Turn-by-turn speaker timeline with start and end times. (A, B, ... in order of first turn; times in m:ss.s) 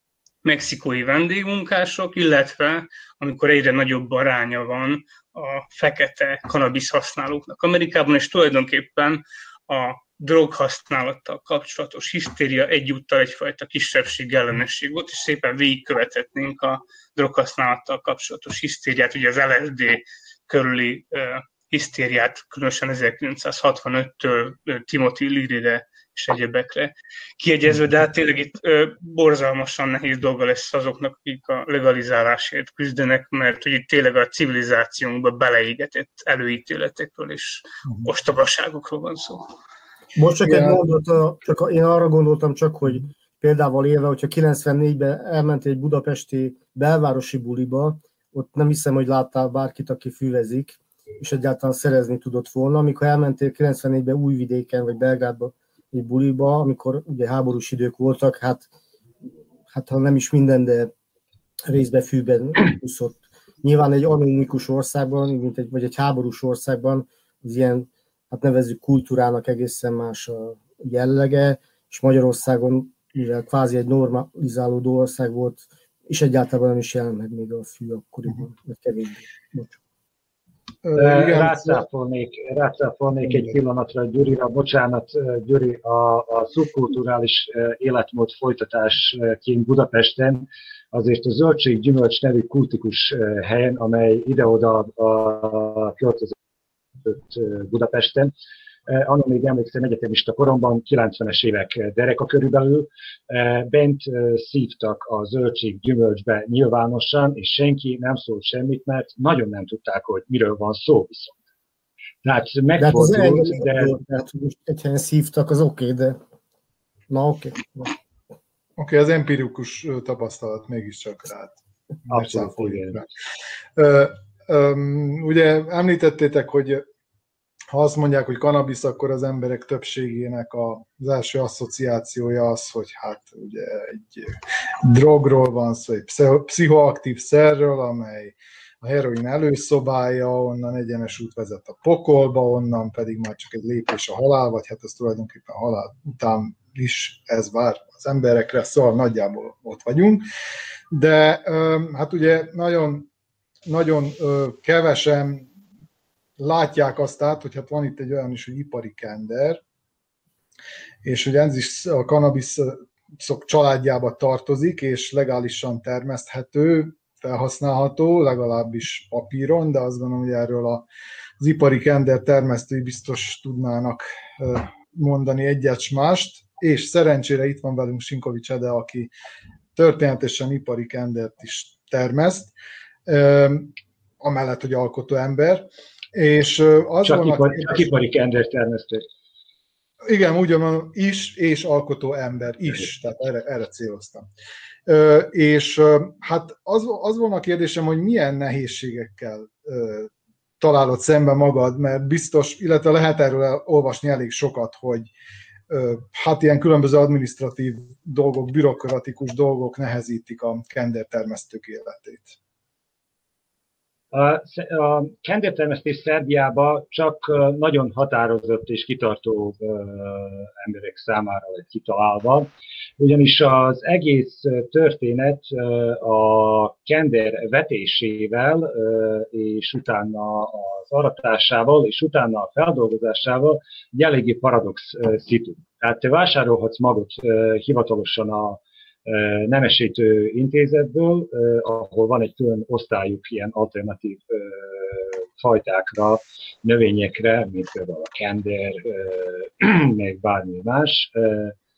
0:00.4-0:39.4 A
0:40.2-0:58.7 B
0:40.4-0:40.8 C
0:59.7-1:00.9 B
1:01.7-1:19.8 B
1:20.8-1:21.8 C
1:21.0-1:36.3 D
1:23.2-1:23.6 C
1:37.0-1:38.3 D
1:38.9-1:51.4 D
1:52.2-1:54.0 D
1:52.8-1:56.2 B
1:57.1-1:58.0 B
1:58.8-2:03.1 C
2:02.1-2:03.0 D
2:03.8-2:06.8 C
2:07.7-2:30.2 C
2:30.9-2:33.1 C
2:33.6-2:35.5 C
2:36.4-2:39.6 C
2:41.0-2:50.8 C
2:51.4-2:59.1 C
2:59.7-3:02.5 C
3:03.0-3:07.9 C
3:07.0-3:09.0 D
3:10.0-3:14.2 C
3:14.8-3:25.1 C
3:25.7-3:32.4 C
3:34.1-4:11.5 D